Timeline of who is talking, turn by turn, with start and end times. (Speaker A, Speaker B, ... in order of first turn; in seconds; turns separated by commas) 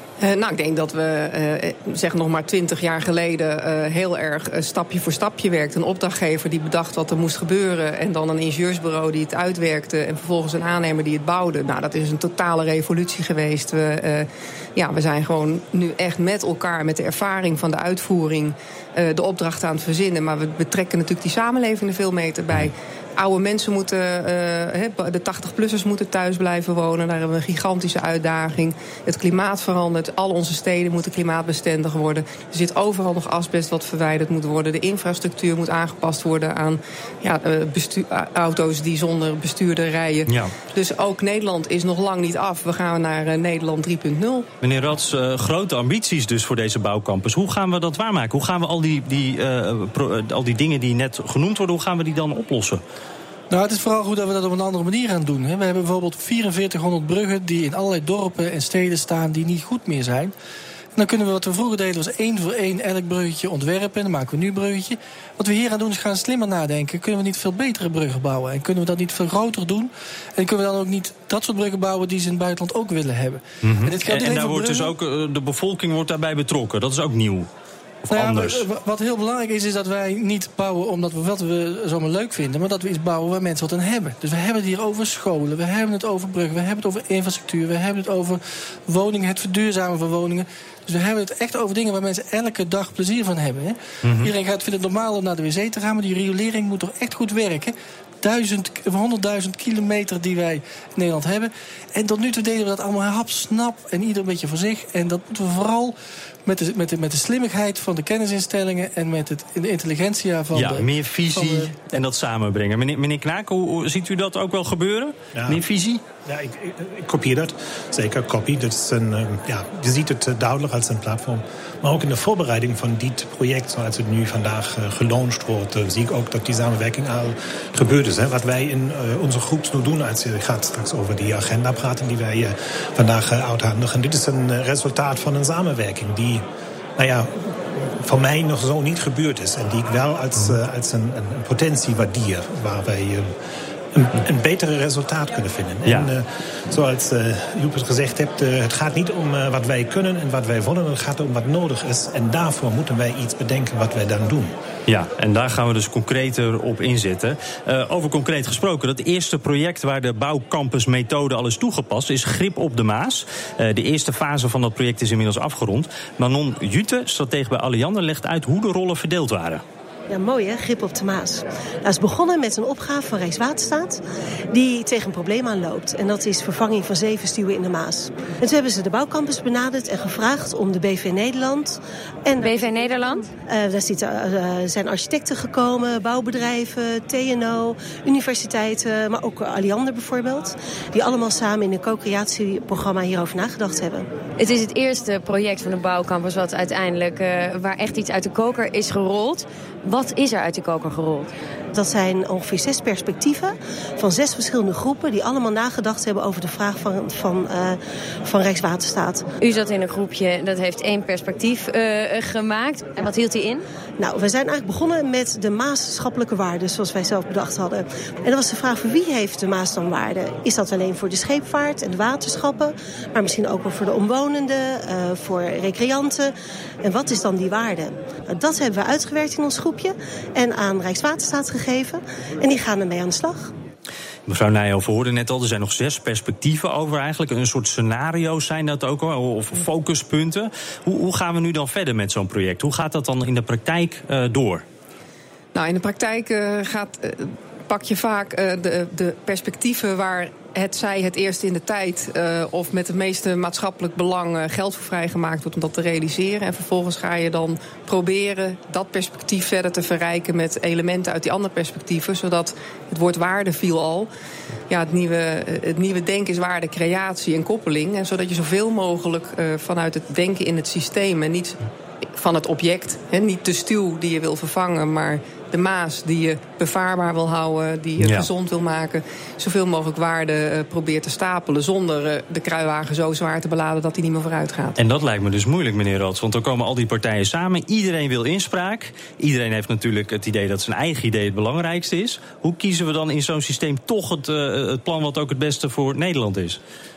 Speaker A: 0.2-44.5, Speaker B: 40.3-40.5, Speaker B: 44.6-52.8, Speaker C: 53.5-60.3, Speaker C: 61.0-74.9, Speaker B: 73.6-77.5, Speaker B: 78.0-78.6, Speaker C: 78.1-105.9, Speaker B: 94.0-94.3, Speaker C: 106.5-111.7, Speaker B: 110.5-116.0, Speaker D: 115.3-115.6, Speaker D: 116.2-136.4, Speaker D: 137.0-143.3, Speaker D: 143.9-154.5, Speaker B: 154.9-169.6, Speaker E: 170.1-174.0, Speaker E: 174.5-194.1, Speaker F: 182.4-183.3, Speaker F: 194.4-201.3, Speaker E: 201.7-209.2, Speaker F: 209.4-213.6, Speaker E: 214.0-233.5, Speaker B: 234.3-244.6, Speaker A: 245.5-264.1, Speaker A: 264.7-271.6, Speaker A: 272.1-284.8, Speaker B: 278.0-278.3, Speaker B: 284.8-296.6